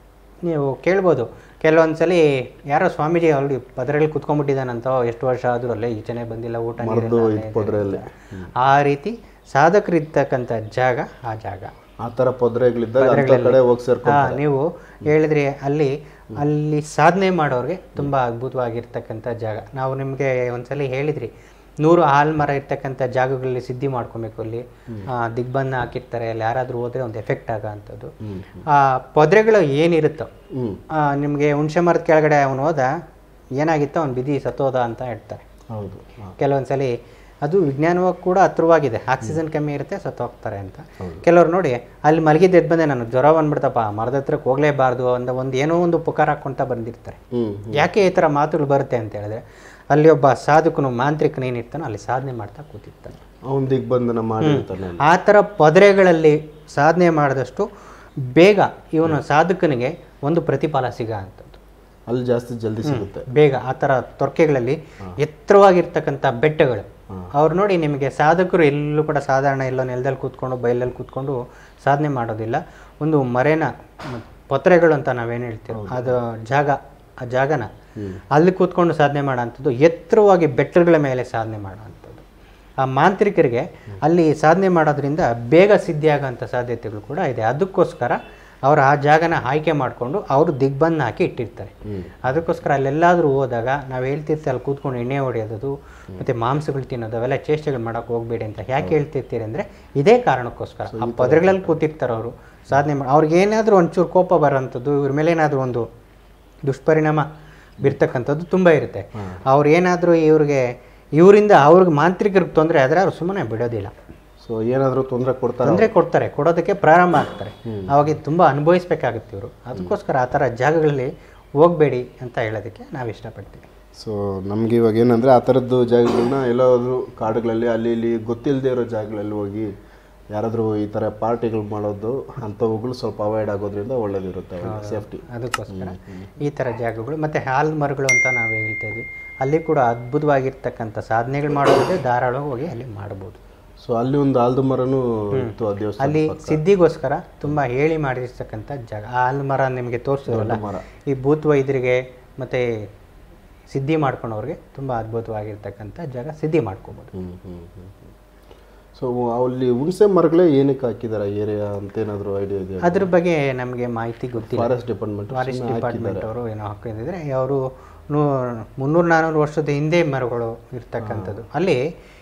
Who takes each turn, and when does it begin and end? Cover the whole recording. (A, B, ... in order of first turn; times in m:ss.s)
0:00.4-0:11.7 A
0:06.8-0:08.5 B
0:12.0-0:14.4 B
0:13.0-0:21.3 A
0:21.8-0:28.1 A
0:28.2-0:28.6 B
0:28.7-0:30.3 A
0:30.5-0:30.8 B
0:30.9-0:32.9 A
0:33.6-0:35.4 A
0:35.7-0:36.4 B
0:36.4-0:47.2 A
0:41.0-0:41.2 B
0:47.3-0:47.9 B
0:47.7-0:53.2 A
0:53.5-0:55.0 B
0:54.4-0:57.7 A
0:58.2-1:01.6 A
1:02.1-1:03.3 B
1:02.8-1:17.7 A
1:15.7-1:16.2 B
1:18.0-1:18.2 B
1:18.3-1:22.2 A
1:22.8-1:45.9 A
1:31.8-1:32.3 B
1:40.9-1:41.8 B
1:46.6-1:47.3 A
1:47.8-1:53.9 A
1:49.2-1:49.4 B
1:54.4-1:55.9 B
1:55.6-2:03.6 A
1:57.6-1:58.1 B
2:04.0-2:09.7 B
2:10.3-2:16.3 B
2:14.6-2:23.4 A
2:23.8-2:26.6 B
2:25.3-2:32.7 A
2:30.3-2:30.8 B
2:33.7-2:37.1 A
2:37.1-2:38.1 B
2:39.0-2:43.1 B
2:42.8-2:44.7 A
2:44.4-2:46.3 B
2:45.3-2:51.8 A
2:51.0-2:51.4 B